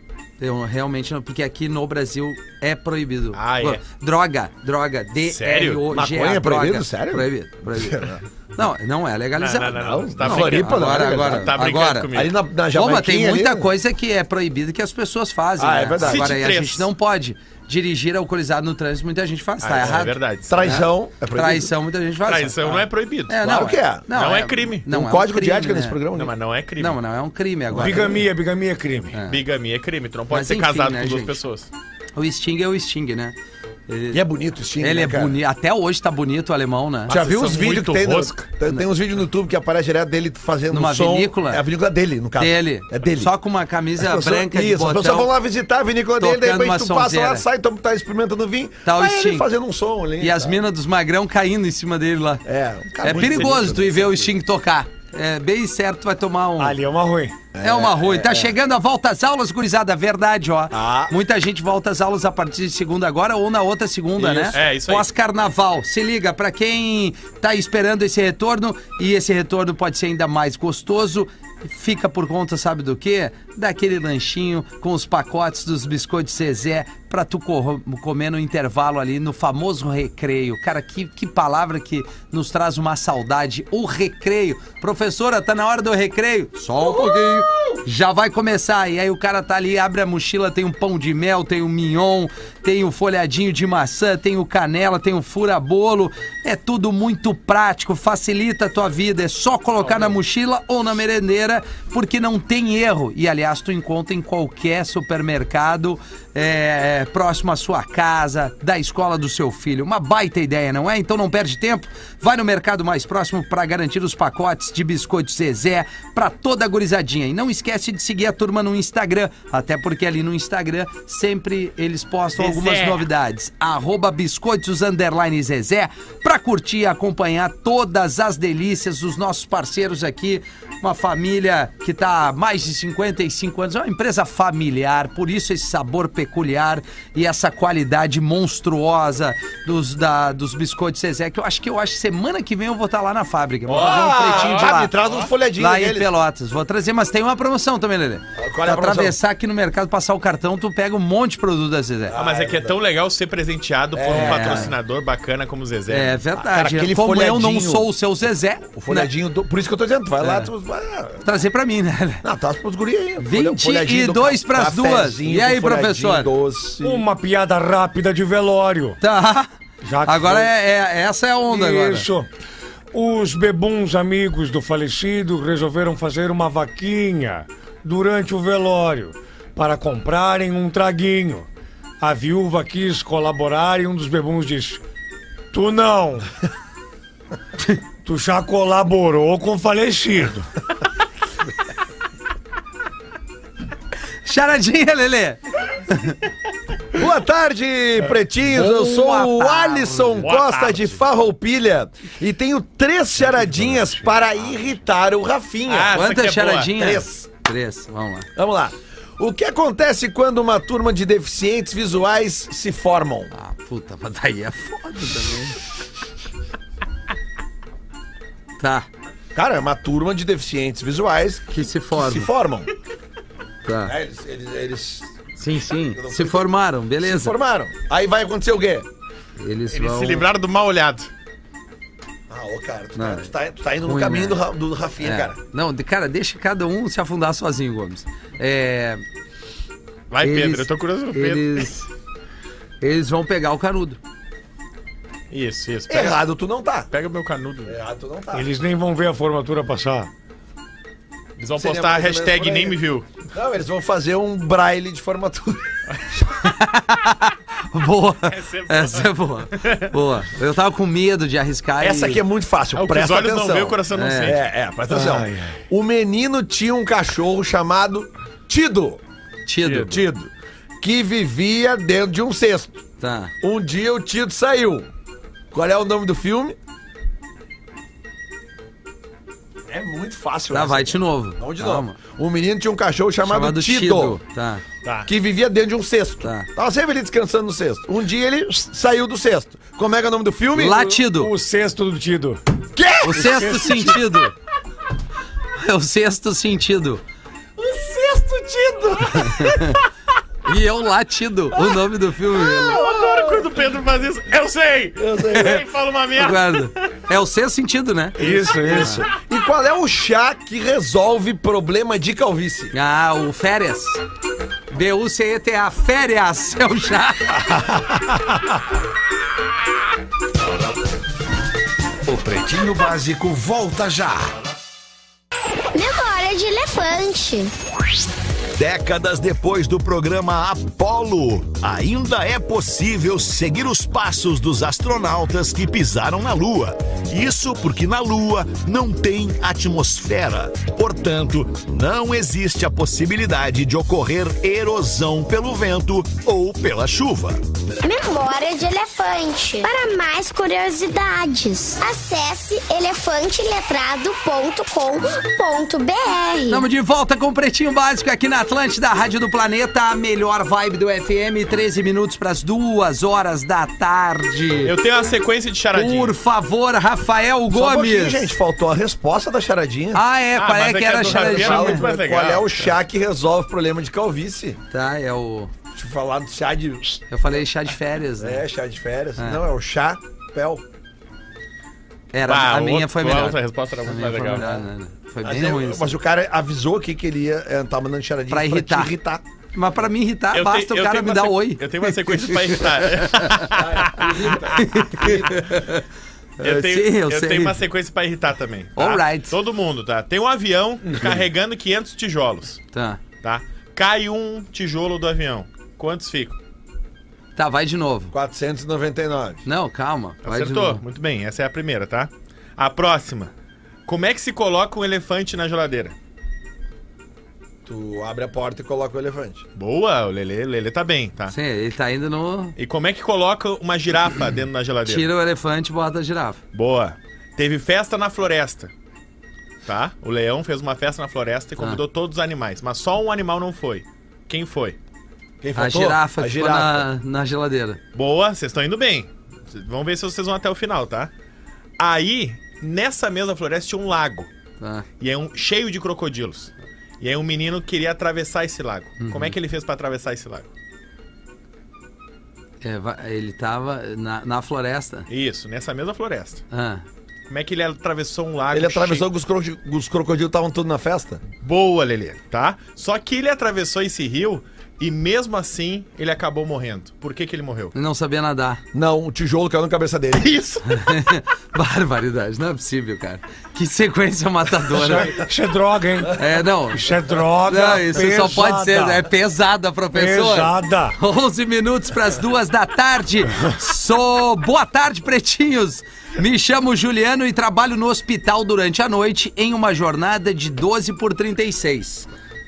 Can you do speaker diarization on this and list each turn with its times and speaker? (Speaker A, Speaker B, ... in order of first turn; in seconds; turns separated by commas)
Speaker A: 0.4-12.1, Speaker B: 3.3-3.8, Speaker B: 5.2-5.8, Speaker C: 5.9-8.2, Speaker B: 9.4-12.3, Speaker C: 9.8-13.7, Speaker A: 12.7-26.0, Speaker C: 15.6-16.4, Speaker B: 16.0-16.9, Speaker B: 19.6-20.8, Speaker C: 20.5-21.7, Speaker B: 22.2-23.4, Speaker C: 23.4-24.1, Speaker B: 24.1-24.9, Speaker C: 24.9-26.3, Speaker B: 26.1-27.0, Speaker A: 26.8-28.2, Speaker D: 27.7-29.1, Speaker C: 27.8-28.1, Speaker A: 29.1-29.4, Speaker B: 29.3-31.7, Speaker A: 30.3-31.4, Speaker A: 32.1-33.3, Speaker A: 33.9-34.2, Speaker C: 34.1-35.4, Speaker A: 34.8-37.1, Speaker B: 37.1-38.5, Speaker C: 37.1-43.3, Speaker A: 40.7-41.6, Speaker A: 42.4-45.3, Speaker C: 44.0-50.6, Speaker A: 46.2-47.4, Speaker A: 48.8-49.5, Speaker A: 50.2-52.4, Speaker C: 52.4-54.3, Speaker A: 53.0-56.8, Speaker B: 53.1-53.5, Speaker D: 56.6-57.4, Speaker C: 57.5-58.5, Speaker A: 57.6-144.9, Speaker C: 60.7-61.1, Speaker B: 64.2-65.1, Speaker C: 86.8-87.8, Speaker B: 99.8-100.2, Speaker B: 122.4-123.0, Speaker B: 143.7-145.3, Speaker C: 143.7-146.1, Speaker A: 145.6-152.2, Speaker C: 148.4-149.2, Speaker C: 152.1-152.8, Speaker B: 152.1-156.2, Speaker C: 153.9-154.7, Speaker A: 154.1-154.7, Speaker A: 155.9-159.1, Speaker C: 156.3-157.9, Speaker C: 158.7-161.3, Speaker A: 160.2-160.5, Speaker A: 161.2-162.2, Speaker C: 162.2-167.0, Speaker A: 163.2-166.3, Speaker D: 166.8-169.0, Speaker A: 169.0-169.5, Speaker D: 169.8-170.5, Speaker A: 170.0-172.1, Speaker D: 171.5-172.3, Speaker D: 172.9-181.5, Speaker D: 182.0-184.8, Speaker D: 185.5-186.3, Speaker D: 188.0-190.5, Speaker A: 194.2-196.2, Speaker C: 196.9-206.0, Speaker A: 198.5-200.3, Speaker B: 200.2-201.0, Speaker D: 203.4-204.1, Speaker B: 205.7-206.7, Speaker A: 205.9-208.3, Speaker C: 206.7-207.3, Speaker C: 208.3-213.3, Speaker A: 213.3-215.6, Speaker A: 218.6-218.9, Speaker C: 219.3-222.7, Speaker A: 221.5-222.3, Speaker A: 223.6-223.9, Speaker C: 223.8-225.1, Speaker A: 225.4-227.3, Speaker C: 225.8-228.9, Speaker A: 229.4-230.2, Speaker B: 229.7-231.1, Speaker C: 232.3-235.4, Speaker A: 232.9-233.3, Speaker A: 233.8-234.4, Speaker A: 235.0-239.0, Speaker B: 240.1-241.7, Speaker A: 240.2-241.9, Speaker A: 242.8-244.0, Speaker B: 245.3-246.2, Speaker C: 245.9-246.9, Speaker B: 246.9-247.8, Speaker C: 247.7-248.5, Speaker D: 248.3-250.1, Speaker B: 251.4-253.1, Speaker C: 251.6-255.7, Speaker A: 256.3-262.2, Speaker B: 258.2-259.9, Speaker C: 261.8-269.0, Speaker B: 262.7-264.4, Speaker A: 263.9-264.4, Speaker D: 264.9-265.6, Speaker A: 269.4-270.0, Speaker C: 269.7-272.8, Speaker A: 273.0-273.3, Speaker C: 273.4-274.9, Speaker C: 275.5-276.6, Speaker C: 279.7-284.2, Speaker A: 280.5-282.0, Speaker A: 283.2-284.6, Speaker C: 285.1-290.9, Speaker A: 286.2-286.5, Speaker A: 290.5-291.3, Speaker D: 290.6-292.4, Speaker C: 292.7-294.0, Speaker A: 293.0-294.3, Speaker D: 293.1-294.0, Speaker A: 295.6-297.0, Speaker C: 297.6-299.7, Speaker A: 299.1-299.8, Speaker A: 300.4-302.8, Speaker C: 302.3-303.6, Speaker B: 302.6-306.9, Speaker C: 305.0-305.6, Speaker A: 305.3-305.6, Speaker A: 306.1-309.0, Speaker D: 308.2-309.0, Speaker C: 308.2-312.7, Speaker A: 312.7-314.0, Speaker A: 314.7-317.4, Speaker E: 322.1-324.2, Speaker F: 325.7-327.5, Speaker E: 328.6-347.4, Speaker F: 347.8-356.6, Speaker A: 356.5-364.7, Speaker B: 364.6-366.1, Speaker A: 365.7-368.3, Speaker C: 367.5-370.0, Speaker A: 369.9-371.9, Speaker B: 370.4-372.7, Speaker C: 371.1-374.6, Speaker A: 374.7-375.5, Speaker C: 375.7-377.0, Speaker A: 377.1-378.4, Speaker C: 378.2-380.6, Speaker A: 379.2-379.4, Speaker A: 382.1-385.9, Speaker B: 382.2-384.6, Speaker C: 385.2-389.2, Speaker A: 388.3-388.9, Speaker A: 389.5-393.5, Speaker B: 390.3-395.2, Speaker C: 393.5-395.4, Speaker A: 394.5-395.8, Speaker A: 396.4-397.6, Speaker B: 396.4-402.6, Speaker A: 398.8-399.3, Speaker A: 402.7-403.0, Speaker B: 403.2-406.4, Speaker A: 407.4-408.1, Speaker C: 408.1-409.4, Speaker A: 409.4-410.8, Speaker B: 410.2-413.3, Speaker B: 413.9-415.9, Speaker C: 417.6-419.4, Speaker B: 419.6-421.3, Speaker A: 421.3-422.6, Speaker B: 422.6-425.1, Speaker A: 424.8-426.4, Speaker B: 426.5-428.7, Speaker B: 429.6-434.8, Speaker C: 435.4-436.9, Speaker A: 435.6-437.8, Speaker B: 437.9-441.1, Speaker B: 441.8-444.3, Speaker A: 444.6-444.9, Speaker B: 445.0-450.5, Speaker A: 449.0-449.3, Speaker A: 452.6-455.1, Speaker B: 455.1-456.4, Speaker A: 456.5-456.8, Speaker B: 457.3-459.1, Speaker C: 458.5-461.2, Speaker B: 461.4-467.7, Speaker A: 467.7-468.6, Speaker C: 468.7-470.4, Speaker B: 470.2-470.6, Speaker A: 470.6-475.2, Speaker D: 474.7-479.1, Speaker A: 476.1-476.9, Speaker A: 477.4-492.1, Speaker D: 479.9-481.0